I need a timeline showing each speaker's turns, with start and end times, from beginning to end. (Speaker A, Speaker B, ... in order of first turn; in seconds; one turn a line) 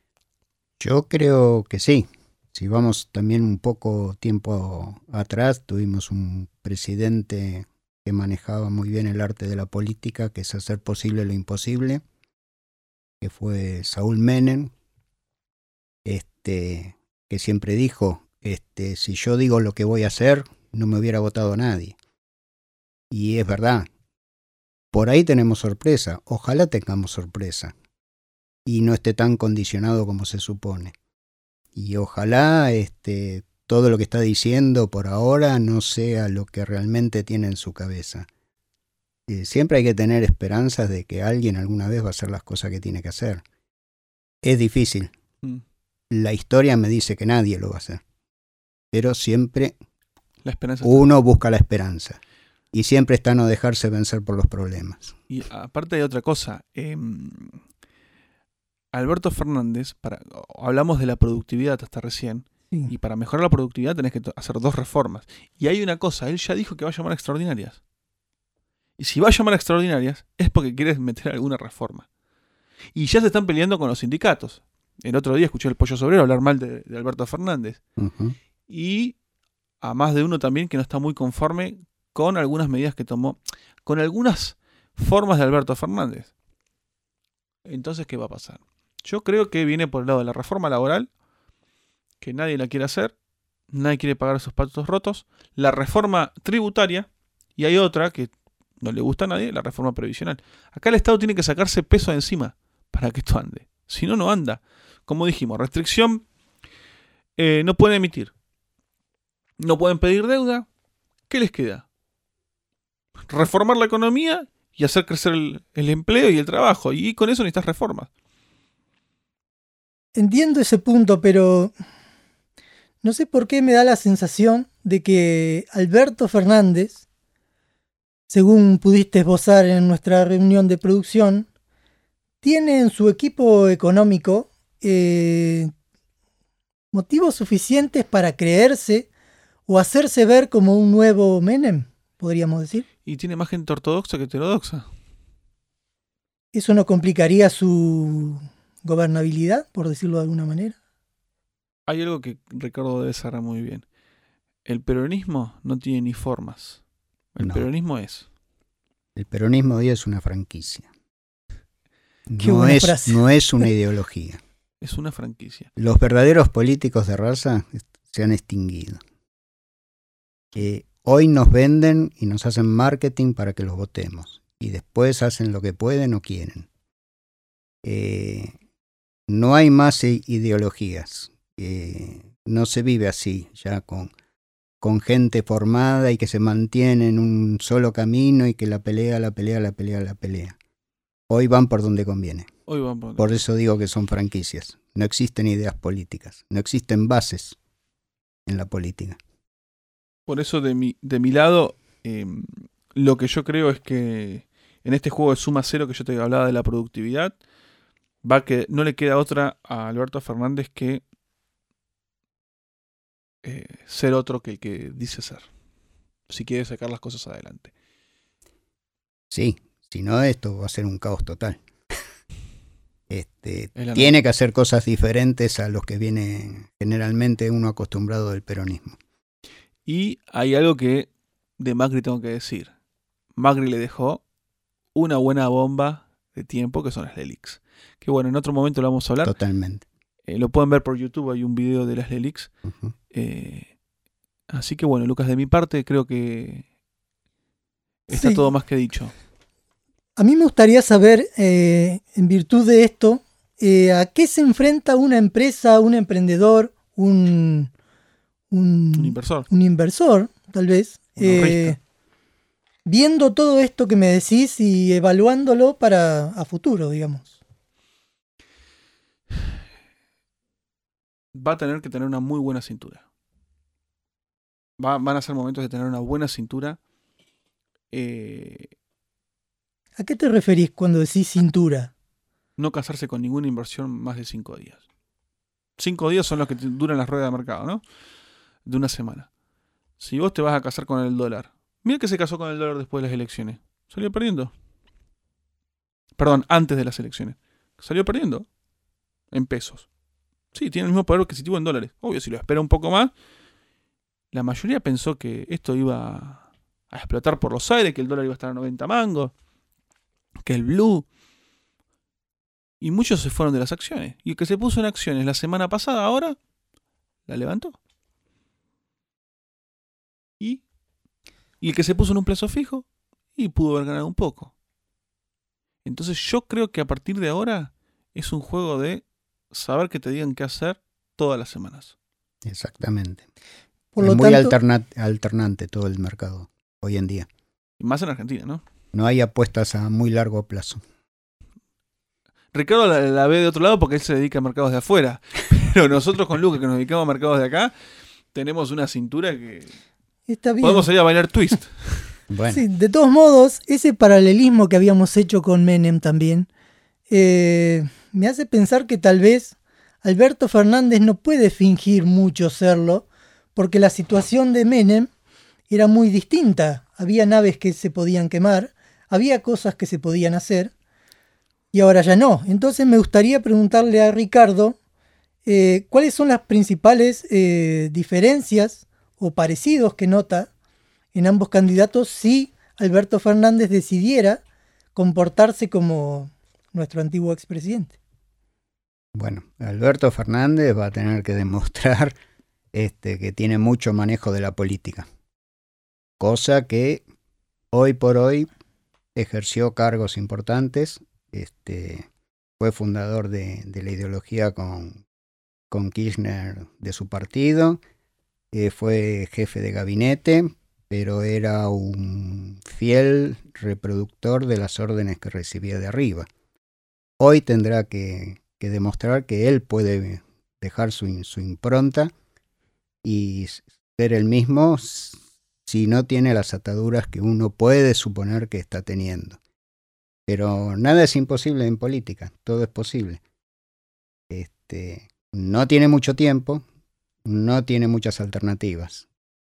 Speaker A: 0.8-12.0
Speaker A: 13.2-14.7
Speaker A: 16.0-22.0
Speaker A: 23.1-23.9
Speaker A: 24.9-27.7
Speaker A: 28.6-30.9
Speaker A: 31.7-38.3
Speaker A: 39.3-43.4
Speaker A: 44.4-45.1
Speaker A: 46.1-48.0
Speaker A: 48.9-49.7
Speaker B: 50.4-51.1
Speaker A: 50.8-52.2
Speaker A: 52.7-55.1
Speaker B: 55.3-57.6
Speaker B: 58.9-67.8
Speaker B: 69.0-72.0
Speaker B: 72.9-77.8
Speaker A: 78.0-78.3
Speaker B: 78.7-79.2
Speaker B: 79.8-86.3
Speaker B: 87.7-91.1
Speaker B: 92.2-93.1
Speaker B: 93.7-106.2
Speaker B: 107.4-108.3
Speaker B: 109.6-110.7
Speaker B: 111.3-111.8
Speaker B: 113.3-118.1
Speaker C: 120.1-121.7
Speaker C: 123.0-127.0
Speaker C: 128.3-131.5
Speaker C: 132.4-135.7
Speaker C: 136.9-139.1
Speaker C: 139.7-142.8
Speaker B: 143.1-144.9
Speaker C: 146.5-150.8
Speaker B: 151.9-153.8
Speaker B: 154.6-156.8
Speaker B: 157.3-158.2
Speaker A: 157.4-157.7
Speaker A: 159.1-160.9
Speaker A: 162.3-164.4
Speaker C: 162.4-163.7
Speaker B: 164.8-165.7
Speaker A: 165.8-169.0
Speaker A: 170.5-176.7
Speaker A: 177.8-178.5
Speaker A: 179.3-184.1
Speaker A: 184.8-190.6
Speaker A: 191.3-192.5
Speaker B: 192.7-193.4
Speaker A: 193.2-197.6
Speaker A: 198.5-199.2
Speaker B: 200.3-207.4
Speaker B: 208.2-211.0
Speaker B: 213.4-215.4
Speaker B: 216.3-217.7
Speaker A: 219.3-221.6
Speaker A: 223.1-229.0
Speaker B: 223.7-224.1
Speaker B: 229.8-232.7
Speaker B: 233.3-234.2
Speaker B: 234.9-239.3
Speaker A: 239.2-239.8
Speaker B: 240.3-242.5
Speaker B: 243.1-243.7
Speaker B: 244.5-246.6
Speaker B: 248.1-249.1
Speaker C: 248.1-248.4
Speaker C: 250.2-257.7
Speaker C: 258.5-261.8
Speaker B: 258.9-259.5
Speaker B: 261.2-261.8
Speaker C: 262.9-267.3
Speaker B: 271.3-273.0
Speaker B: 274.8-276.8
Speaker B: 277.9-278.7
Speaker C: 280.0-281.9
Speaker B: 282.6-284.8
Speaker B: 285.8-287.8
Speaker B: 288.6-289.3
Speaker B: 290.0-294.5
Speaker B: 296.2-298.5
Speaker B: 299.3-299.9
Speaker B: 300.5-303.1
Speaker B: 304.3-309.3
Speaker B: 310.4-311.1
Speaker B: 312.8-316.4
Speaker B: 317.3-317.8
Speaker B: 321.6-324.5
Speaker B: 325.8-331.9
Speaker A: 332.4-333.2
Speaker C: 333.9-334.5
Speaker A: 334.0-337.3
Speaker B: 337.8-338.6
Speaker A: 338.9-340.8
Speaker B: 342.5-347.7
Speaker B: 348.3-349.7
Speaker C: 350.3-350.9
Speaker B: 350.6-352.1
Speaker A: 352.3-352.6
Speaker C: 352.5-356.5
Speaker C: 357.1-365.1
Speaker C: 365.7-370.7
Speaker C: 371.7-374.8
Speaker C: 375.4-380.5
Speaker C: 381.1-384.4
Speaker C: 384.9-387.9
Speaker A: 389.1-392.2
Speaker A: 392.7-395.1
Speaker A: 396.2-397.0
Speaker A: 397.7-398.5
Speaker A: 399.1-402.1
Speaker A: 402.6-405.0
Speaker A: 405.7-407.8
Speaker A: 408.5-416.3
Speaker A: 417.2-422.1
Speaker A: 423.0-429.4
Speaker A: 430.3-433.2
Speaker A: 434.3-436.6
Speaker A: 437.2-439.1